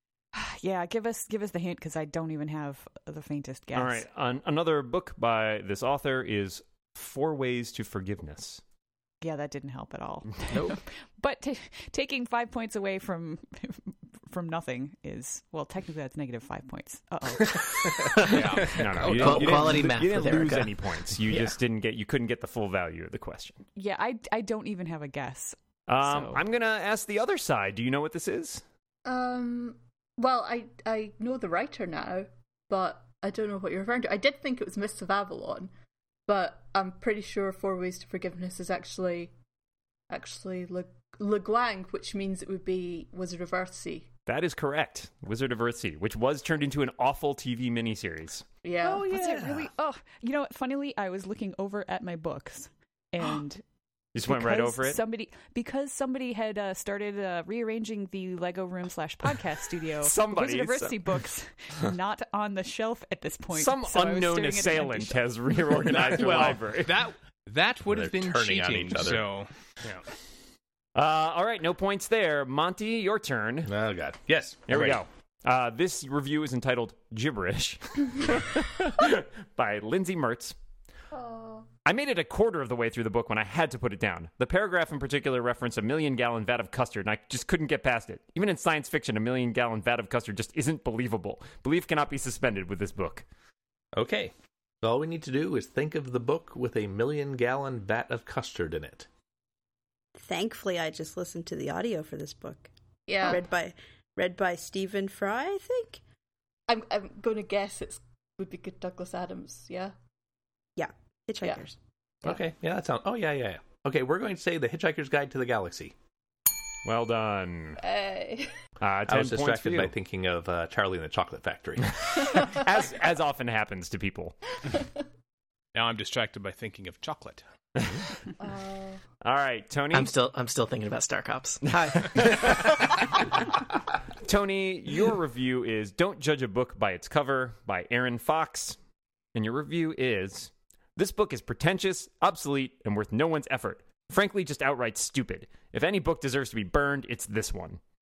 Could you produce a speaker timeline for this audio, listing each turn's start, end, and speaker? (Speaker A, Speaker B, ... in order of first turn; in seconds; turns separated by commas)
Speaker A: 0.3-4.0, Speaker B: 3.7-8.6, Speaker A: 9.2-18.1, Speaker C: 10.5-10.8, Speaker D: 18.3-19.4, Speaker B: 18.6-23.6, Speaker C: 19.1-21.5, Speaker E: 19.2-19.7, Speaker A: 23.8-26.4, Speaker B: 25.9-28.6, Speaker F: 29.0-35.7, Speaker F: 36.3-39.3, Speaker F: 40.1-44.1, Speaker B: 44.3-48.5, Speaker F: 48.6-49.1, Speaker A: 48.8-53.6, Speaker E: 49.2-49.6, Speaker B: 54.1-55.0, Speaker A: 54.2-65.3, Speaker B: 60.0-61.0, Speaker B: 63.5-67.0, Speaker D: 65.7-70.0, Speaker E: 67.8-69.3, Speaker B: 70.9-73.7, Speaker E: 73.6-75.0, Speaker B: 74.7-80.5, Speaker F: 81.1-81.7, Speaker B: 81.8-93.2, Speaker E: 93.9-99.1, Speaker G: 100.2-102.7, Speaker F: 103.1-103.4, Speaker G: 103.2-106.0, Speaker F: 106.7-109.9, Speaker G: 110.8-111.8, Speaker E: 112.2-115.9, Speaker B: 116.8-117.8, Speaker F: 117.8-118.5, Speaker B: 118.8-119.9, Speaker E: 119.1-122.0, Speaker B: 122.2-124.5, Speaker D: 125.7-127.4, Speaker F: 128.4-129.0, Speaker B: 129.2-130.1, Speaker C: 129.9-132.8, Speaker B: 131.7-132.9, Speaker B: 134.2-138.8, Speaker B: 139.3-147.8